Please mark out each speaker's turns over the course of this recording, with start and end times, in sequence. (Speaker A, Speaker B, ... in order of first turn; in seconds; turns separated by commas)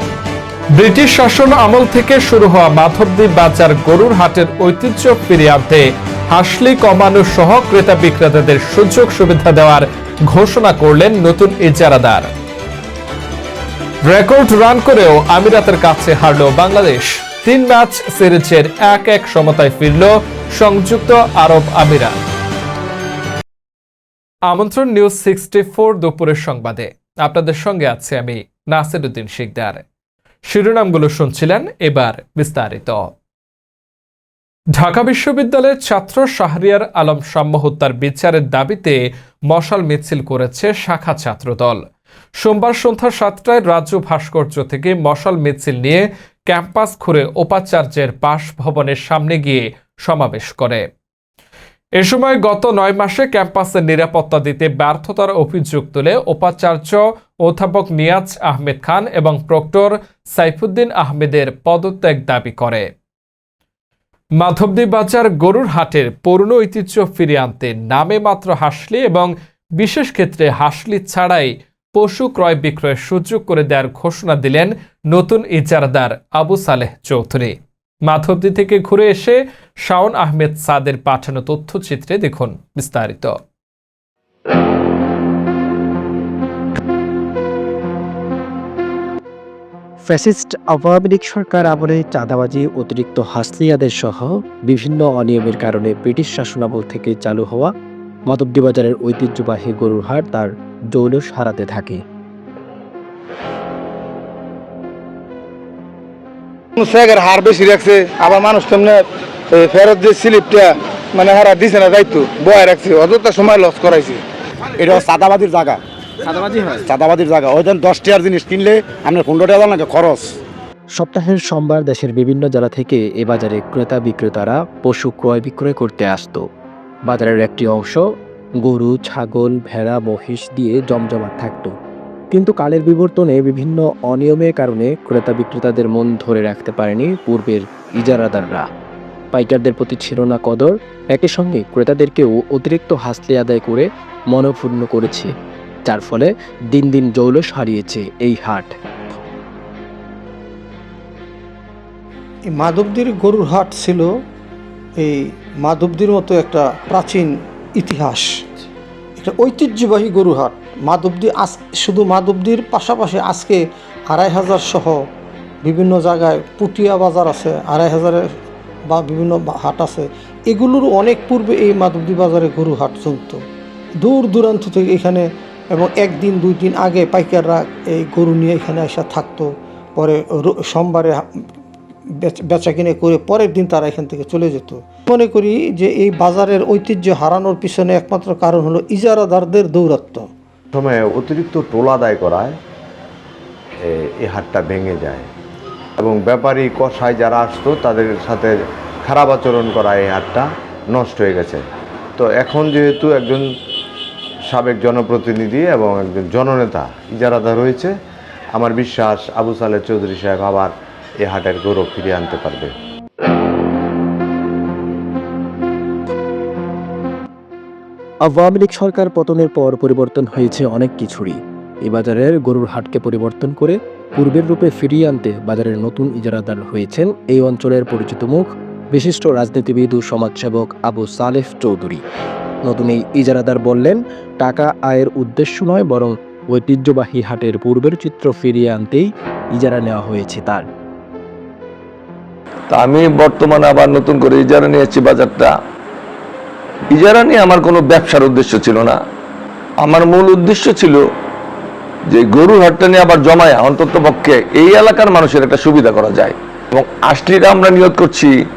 Speaker A: 0.7-12.3, Speaker A: 14.0-22.2, Speaker A: 24.5-29.8, Speaker A: 30.5-33.1, Speaker A: 34.7-41.8, Speaker A: 42.4-50.8, Speaker A: 52.0-62.9, Speaker A: 64.4-77.5, Speaker A: 78.0-83.4, Speaker B: 90.0-97.7, Speaker B: 98.3-102.0, Speaker C: 106.8-114.2, Speaker D: 114.8-115.8, Speaker C: 116.3-116.8, Speaker D: 116.9-120.3, Speaker B: 121.0-126.4, Speaker B: 127.1-128.0, Speaker B: 128.6-131.7, Speaker B: 132.3-138.7, Speaker B: 139.3-145.3, Speaker B: 145.9-148.7, Speaker E: 152.5-154.1, Speaker E: 155.0-158.4, Speaker E: 159.2-165.0, Speaker E: 165.6-168.3, Speaker E: 168.9-173.4, Speaker E: 174.0-181.4, Speaker E: 182.2-190.3, Speaker F: 190.7-192.6, Speaker F: 193.8-195.3, Speaker F: 196.0-201.6, Speaker F: 202.2-203.4, Speaker F: 204.5-207.9, Speaker F: 208.5-212.7, Speaker B: 218.2-232.0, Speaker B: 232.7-240.6, Speaker G: 242.7-245.5, Speaker G: 246.9-249.0, Speaker G: 249.8-251.0, Speaker G: 252.1-258.3